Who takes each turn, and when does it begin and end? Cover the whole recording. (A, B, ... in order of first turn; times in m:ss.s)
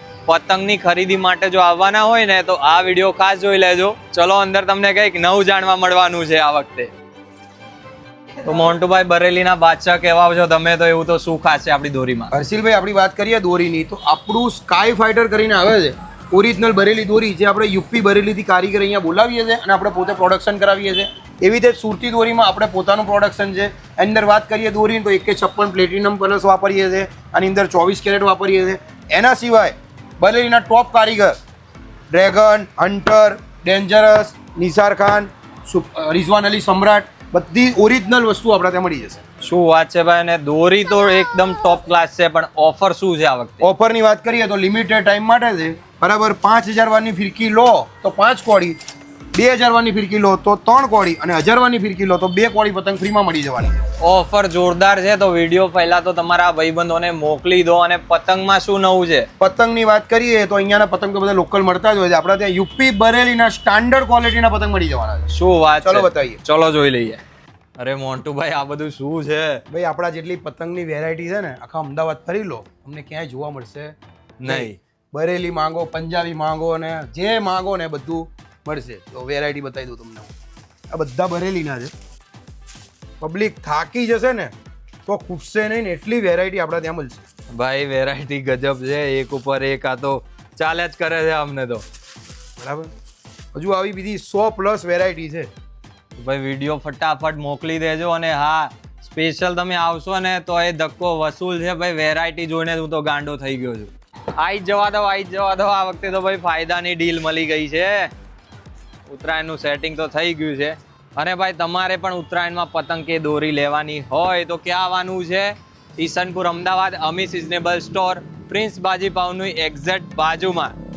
0:00.3-0:06.9 A
0:08.4-0:12.3 A
0:12.3-0:31.4 B
0:32.1-0:39.2 B
0:39.4-0:43.7 A
0:43.6-0:48.8 B
0:49.3-0:53.8 B
0:54.0-0:59.3 A
0:59.4-1:05.3 B
1:05.3-1:07.2 A
1:05.8-1:06.4 B
1:07.8-1:09.6 A
1:09.7-1:13.9 B
1:14.4-1:14.8 A
1:14.5-1:20.3 B
1:20.9-1:21.9 B
1:23.2-1:24.5 B
1:25.1-1:27.2 B
1:27.6-1:31.8 A
1:32.6-1:32.9 B
1:33.5-1:35.5 B
1:36.2-1:48.1 A
1:49.1-2:00.8 A